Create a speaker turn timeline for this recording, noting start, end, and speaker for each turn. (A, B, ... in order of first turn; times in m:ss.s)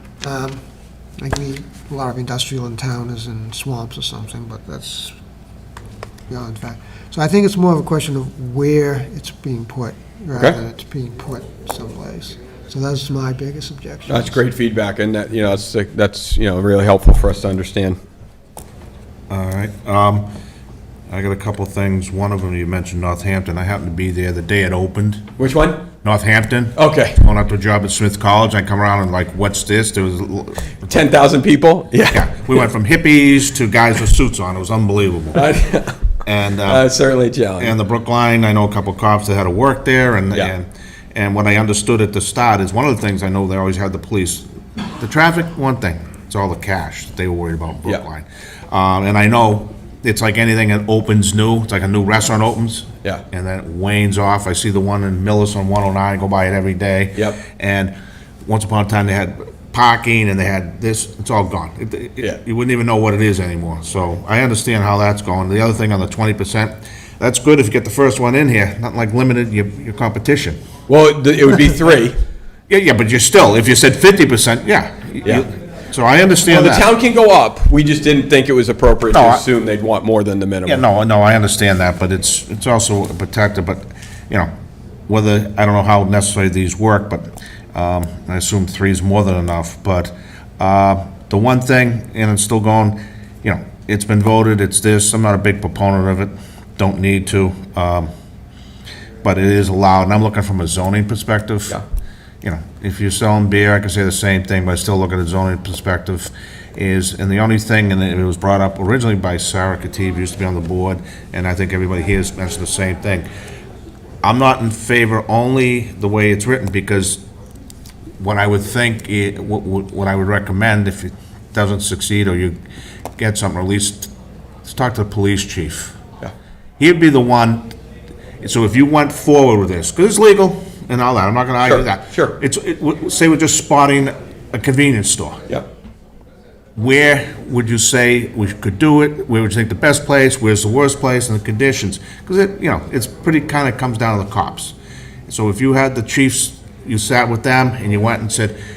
0:00.2-0:00.6 A
0:01.2-0:05.2 A
0:06.3-0:14.4 A
0:14.1-0:18.0 B
0:19.3-0:20.3 C
0:21.1-0:25.3 C
0:25.4-0:25.9 B
0:26.0-0:30.7 C
0:26.8-0:27.2 B
0:30.8-0:32.4 B
0:32.1-0:35.4 C
0:35.3-0:36.0 B
0:36.2-0:36.8 C
0:36.7-0:37.8 B
0:37.6-0:44.4 C
0:45.0-0:57.9 C
0:57.2-0:57.4 B
0:58.4-1:10.6 C
1:10.9-1:12.2 B
1:12.7-1:16.9 C
1:16.5-1:20.8 B
1:19.1-1:19.4 C
1:20.7-1:24.5 C
1:25.1-1:38.1 C
1:39.2-1:41.8 C
1:42.4-1:53.3 C
1:54.2-1:57.2 C
1:58.2-2:02.6 C
2:03.2-2:04.1 C
2:04.6-2:06.0 C
2:06.8-2:07.8 C
2:08.4-2:15.5 C
2:11.6-2:12.4 B
2:16.8-2:24.8 C
2:25.3-2:28.6 C